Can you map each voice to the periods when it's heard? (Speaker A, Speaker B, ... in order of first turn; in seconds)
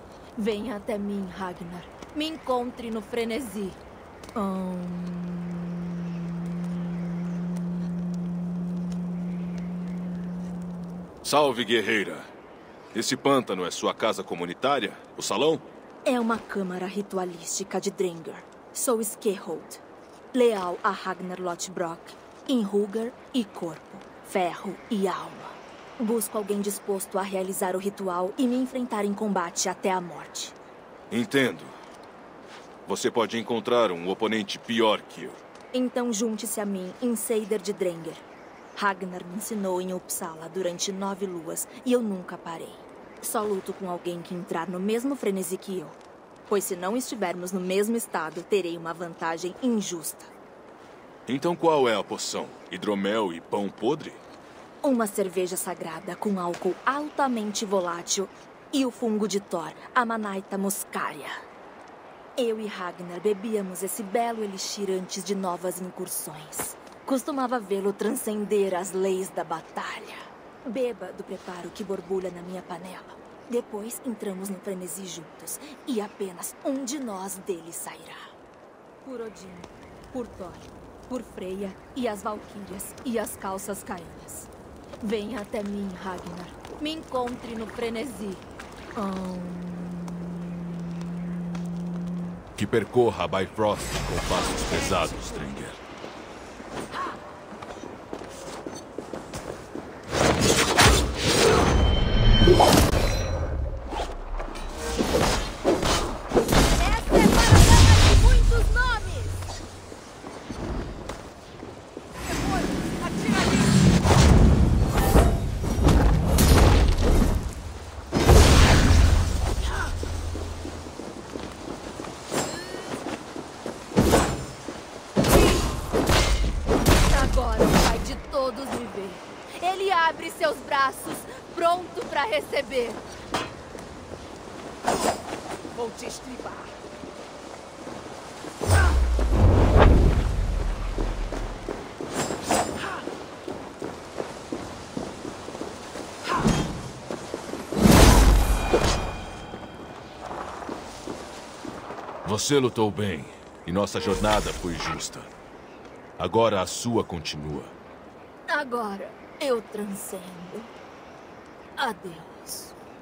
Speaker A: 0.3-3.8, 4.3-6.3, 16.0-30.6, 35.7-50.3, 54.8-61.4, 62.4-78.3, 79.0-90.9, 106.7-109.4, 112.5-113.6, 126.9-133.0, 135.8-136.7, 158.5-160.7, 161.8-162.8
Speaker B: 11.2-12.3, 12.9-15.6, 31.1-31.7, 32.9-35.4, 51.2-54.2, 92.5-95.8, 152.2-155.3, 156.2-157.7